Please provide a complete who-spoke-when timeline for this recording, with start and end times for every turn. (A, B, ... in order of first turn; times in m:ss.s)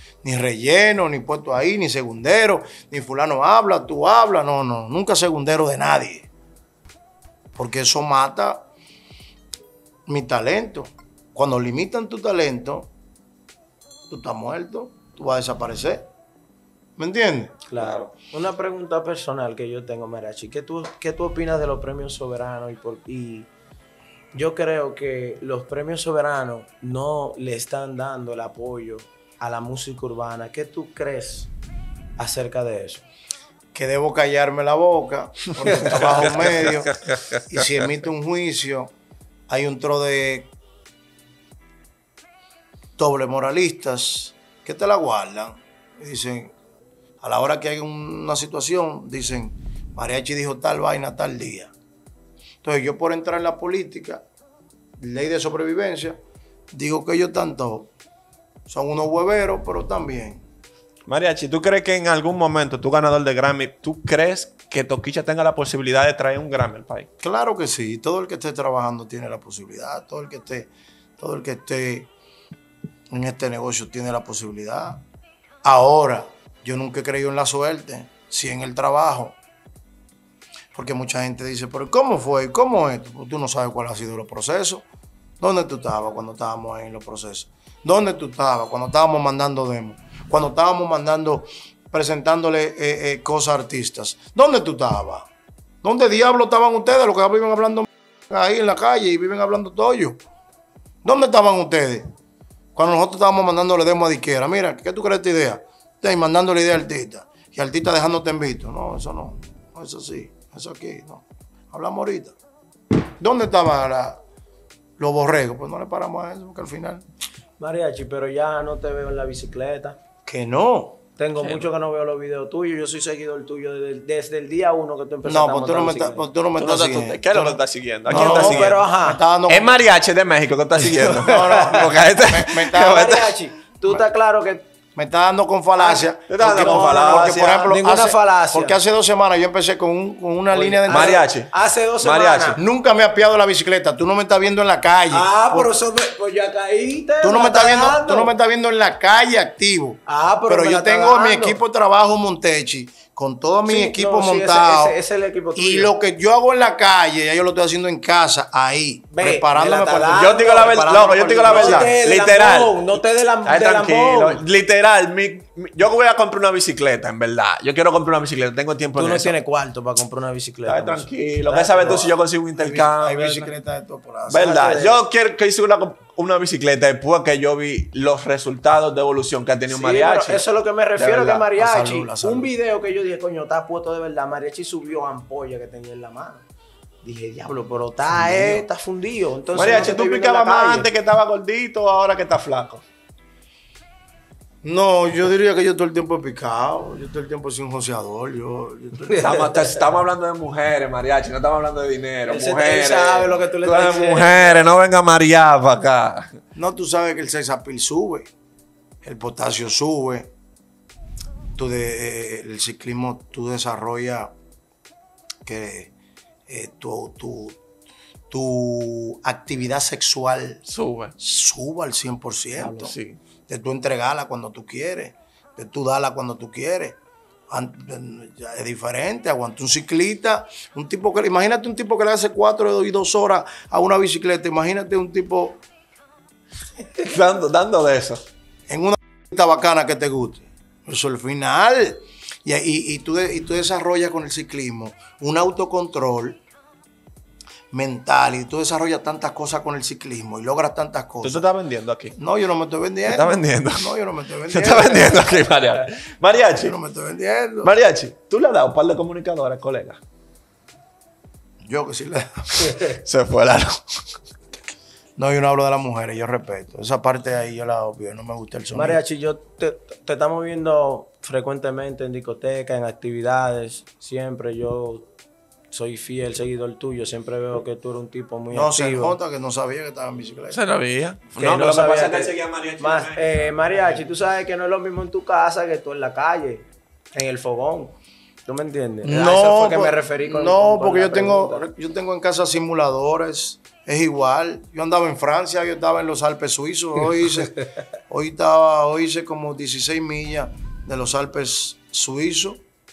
0:00.2-0:06.3 A
0:07.5-0:08.7 A
0:10.1-0:12.9 A
0:14.1-0:16.1 A
0:17.0-0:17.6 A
0:17.7-0:23.5 B
0:17.7-0:18.1 C
0:24.3-0:31.5 B
0:32.2-0:33.0 B
0:33.7-0:38.9 A
0:35.9-0:37.6 C
0:39.5-0:40.5 A
0:43.0-0:46.5 A
0:47.2-0:51.7 A
0:52.6-0:54.2 A
0:55.0-0:56.2 A
0:56.7-0:57.9 A
0:58.7-1:00.4 A
1:01.1-1:07.1 C
1:07.2-1:12.1 A
1:13.1-1:15.0 A
1:15.6-1:19.4 A
1:20.7-1:24.8 A
1:25.4-1:35.3 A
1:35.8-1:40.2 A
1:41.0-1:42.0 A
1:42.7-1:52.4 A
1:53.2-1:54.2 A
1:55.0-1:57.0 A
1:57.6-2:00.0 B
2:00.2-2:01.0 A
2:01.2-2:06.3 B
2:01.4-2:01.7 C
2:05.2-2:09.8 A
2:06.6-2:08.8 C
2:08.1-2:09.2 B
2:09.5-2:13.4 C
2:10.8-2:13.1 A
2:11.4-2:11.9 B
2:12.7-2:14.6 B
2:15.0-2:21.2 A
2:15.8-2:18.8 B
2:16.3-2:17.7 C
2:20.5-2:22.6 B
2:20.9-2:21.5 C
2:22.0-2:22.6 C
2:22.6-2:25.7 A
2:25.1-2:28.3 B
2:27.2-2:35.0 A
2:30.0-2:31.6 B
2:33.6-2:35.9 B
2:35.5-2:41.9 A
2:39.1-2:44.4 B
2:40.1-2:49.3 C
2:48.9-2:52.1 B
2:50.7-2:53.5 C
2:52.6-2:54.8 A
2:54.3-3:00.4 C
2:54.3-2:55.0 B
2:59.7-3:06.4 B
3:01.0-3:01.4 C
3:01.5-3:02.5 A
3:07.0-3:10.9 B
3:08.1-3:08.6 A
3:09.5-3:12.8 C
3:14.6-3:19.5 A
3:19.1-3:19.5 B
3:19.2-3:26.3 C
3:22.3-3:24.7 B
3:26.5-3:28.3 A
3:29.0-3:30.3 A
3:31.6-3:34.3 A
3:35.4-3:35.9 A
3:36.5-3:37.6 A
3:38.3-3:40.6 A
3:40.7-3:41.1 C
3:41.2-3:42.9 A
3:42.7-3:43.2 C
3:43.5-3:47.0 A
3:47.5-3:55.6 A
3:57.0-3:58.2 C
3:58.7-4:06.4 A
4:07.7-4:11.4 A
4:11.2-4:12.2 C
4:12.2-4:15.5 A
4:13.1-4:14.0 C
4:14.5-4:16.7 C
4:16.6-4:17.8 A
4:17.6-4:20.0 C
4:21.6-4:22.8 A
4:22.6-4:24.0 C
4:25.2-4:29.0 A
4:28.7-4:35.1 B
4:35.7-4:39.2 B
4:38.5-4:40.6 A
4:40.5-4:44.0 C
4:41.3-4:51.6 B
4:49.0-5:02.6 A